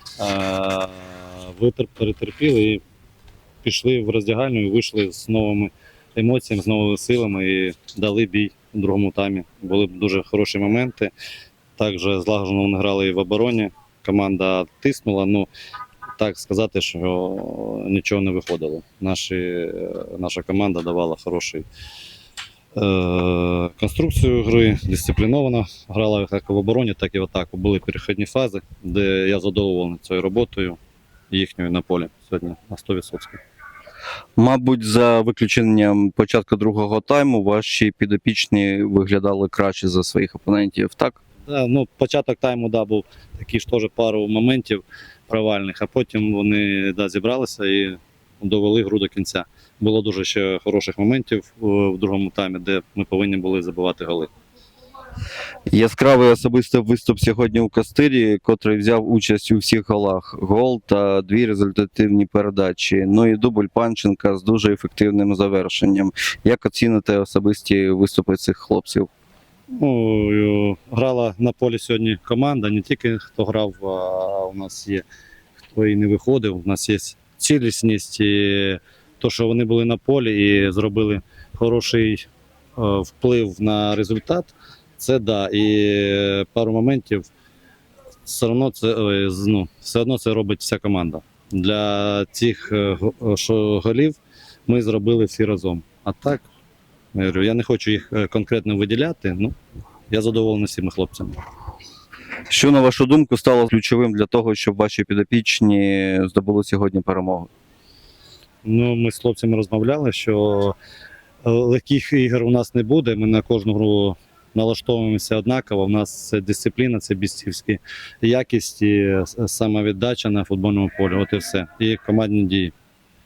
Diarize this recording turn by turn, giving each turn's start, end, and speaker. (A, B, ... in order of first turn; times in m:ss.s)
0:00.2-0:02.8 A
0:03.6-0:11.1 A
0:11.8-0:15.5 A
0:16.2-0:21.7 A
0:22.8-0:30.8 A
0:31.3-0:33.4 A
0:34.4-0:41.2 B
0:41.5-0:54.3 A
0:55.7-1:09.1 B
1:09.7-1:15.0 A
1:15.7-1:27.3 A
1:28.2-1:36.4 A
1:37.1-1:39.6 A
1:40.1-1:41.4 A
1:42.5-1:47.5 B
1:48.6-1:50.8 A
1:51.4-2:02.7 A